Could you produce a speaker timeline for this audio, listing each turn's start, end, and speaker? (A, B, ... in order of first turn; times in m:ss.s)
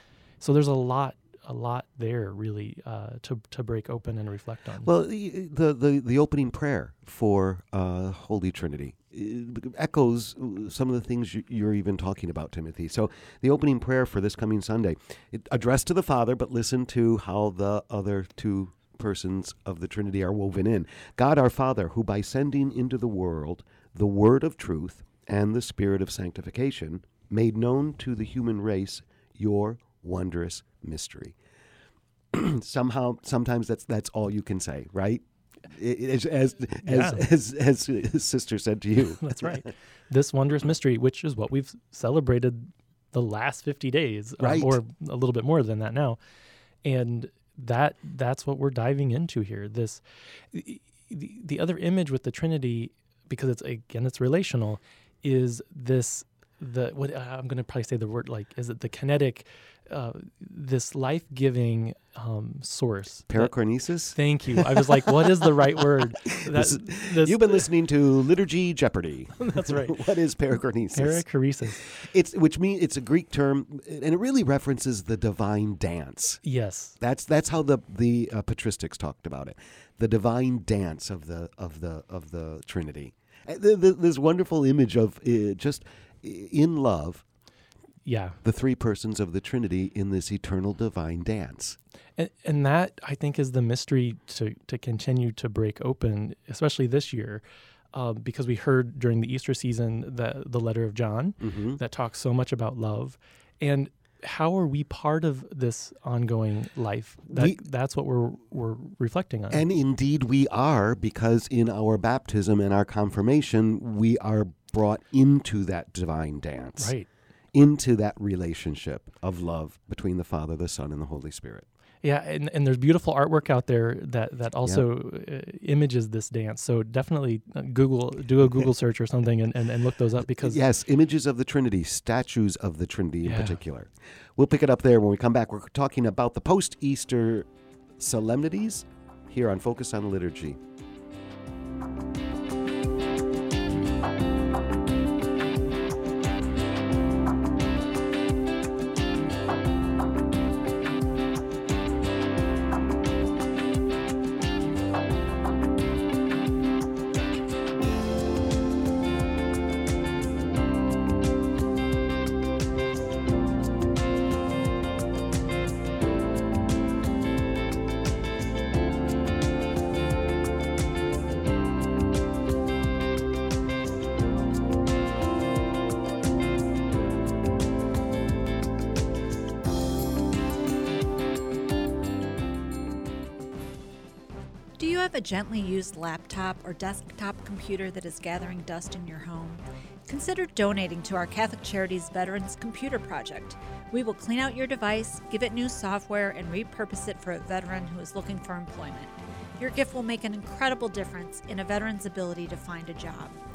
0:00.4-0:04.9 A
0:04.8-0:31.4 B
0:32.3-0:39.7 B
0:36.8-0:37.2 A
0:39.2-0:46.2 A
0:44.4-0:44.8 B
0:46.8-1:03.5 A
1:03.3-1:11.2 B
1:04.1-1:07.6 A
1:09.4-1:10.0 A
1:10.9-1:11.8 A
1:11.8-1:16.4 B
1:16.4-1:17.0 A
1:17.0-1:27.2 B
1:28.0-1:28.4 A
1:28.4-1:31.8 B
1:32.2-1:49.6 A
1:41.4-1:41.8 B
1:47.3-1:47.6 B
1:49.5-1:56.9 B
1:56.8-1:57.1 A
1:57.5-2:01.6 B
2:02.0-2:10.6 A
2:10.3-2:20.6 B
2:13.2-2:13.6 A
3:04.8-3:23.4 C